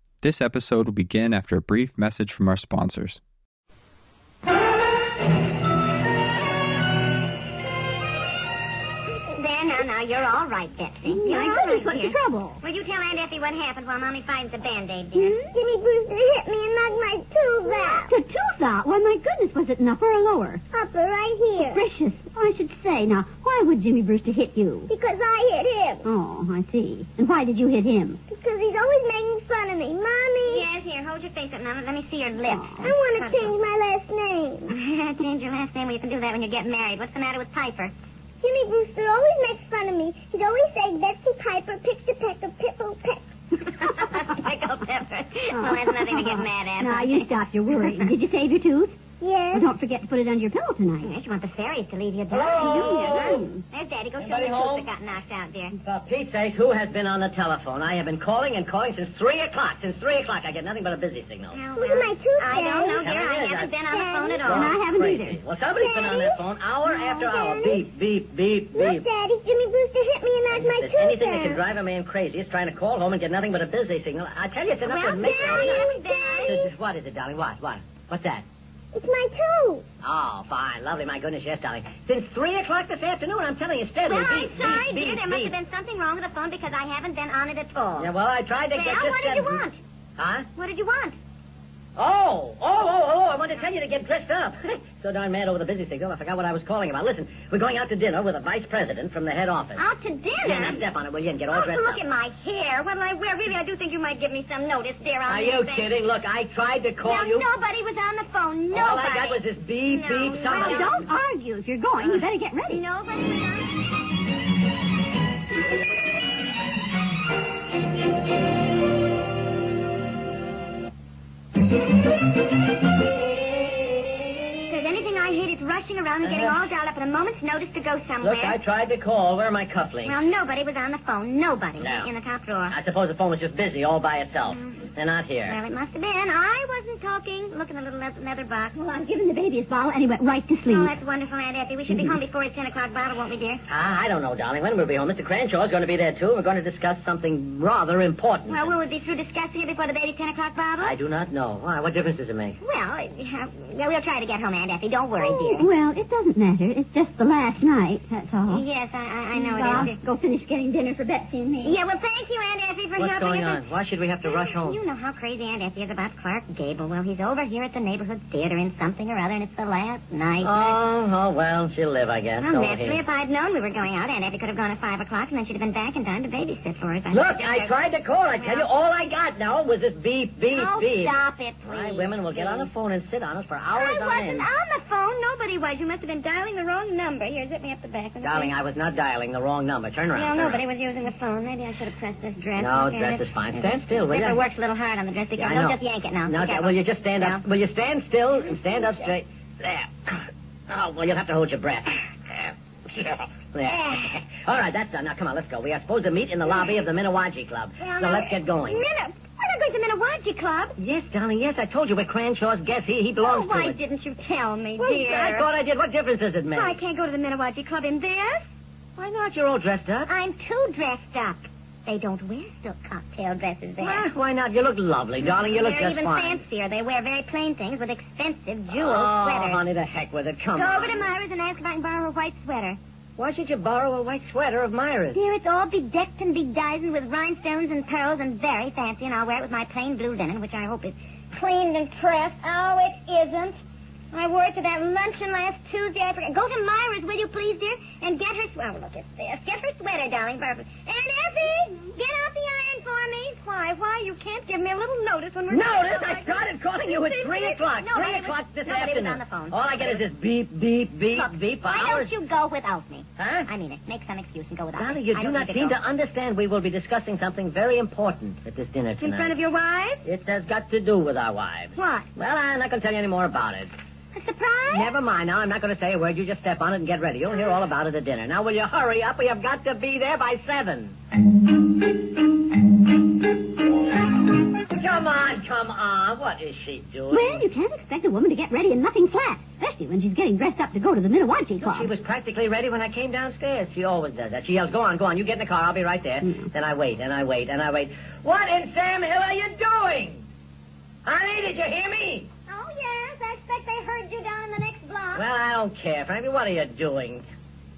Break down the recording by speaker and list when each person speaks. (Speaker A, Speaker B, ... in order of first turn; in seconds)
Speaker A: 0.2-3.2
Speaker B: 9.1-15.4, 30.4-33.5, 34.7-37.9, 43.8-47.3, 51.0-55.8, 61.5-64.8, 74.8-76.6, 84.0-88.1, 88.7-89.8, 90.6-91.2, 99.8-100.8, 101.5-105.9, 107.0-111.0, 112.0-113.8, 124.7-128.6, 130.1-132.8, 134.5-134.8, 135.5-138.8, 140.7-143.6, 148.5-151.0, 152.6-155.7, 158.5-160.0, 161.6-163.7, 164.2-170.8, 172.4-177.8, 178.3-178.7, 180.5-182.7, 183.7-188.5, 190.1-197.4, 203.6-204.2, 207.8-210.8, 213.2-215.5, 216.5-218.5, 220.1-224.1, 225.2-229.6, 230.6-232.8, 235.1-243.6, 244.1-260.0, 261.1-265.8, 269.0-270.0, 271.8-272.1, 274.1-274.9, 302.5-305.2
Speaker C: 11.1-12.6, 15.2-15.5, 17.7-20.6, 21.6-24.9, 26.0-28.2, 32.4-32.9, 45.5-49.0, 49.5-51.1, 52.5-53.6, 64.5-65.4, 110.5-112.8, 138.8-140.9, 141.9-142.2, 155.2-158.6, 159.3-161.8, 287.1-291.9
Speaker D: 15.5-18.1, 20.7-21.8, 24.9-26.1, 28.3-30.6, 32.8-34.8, 38.4-43.2, 49.2-49.7, 61.8-63.1, 63.9-64.4, 65.8-66.4, 67.1-67.8, 68.7-71.6, 75.2-76.7, 78.9-79.8
Speaker E: 52.3-53.5, 54.2-54.9, 55.8-61.6, 63.0-63.8, 64.4-69.0, 70.5-75.9, 76.4-78.4, 80.0-85.6, 88.0-89.6, 90.2-90.5, 92.0-99.8, 100.4-102.0, 105.3-107.5, 108.7-110.9, 126.2-126.6, 128.2-130.2, 131.8-132.1, 132.7-135.6, 143.7-148.7, 150.8-152.6, 163.0-164.8, 170.4-173.0, 177.1-184.5, 188.2-190.6, 192.6-194.4, 195.4-208.8, 210.8-213.8, 214.8-216.8, 219.0-220.1, 223.8-226.4, 228.7-231.1, 233.2-235.2, 255.5-262.1, 263.2-263.5, 264.8-269.4, 270.1-273.7, 274.7-281.0, 284.7-287.5, 291.6-300.2, 301.1-302.3, 305.1-307.2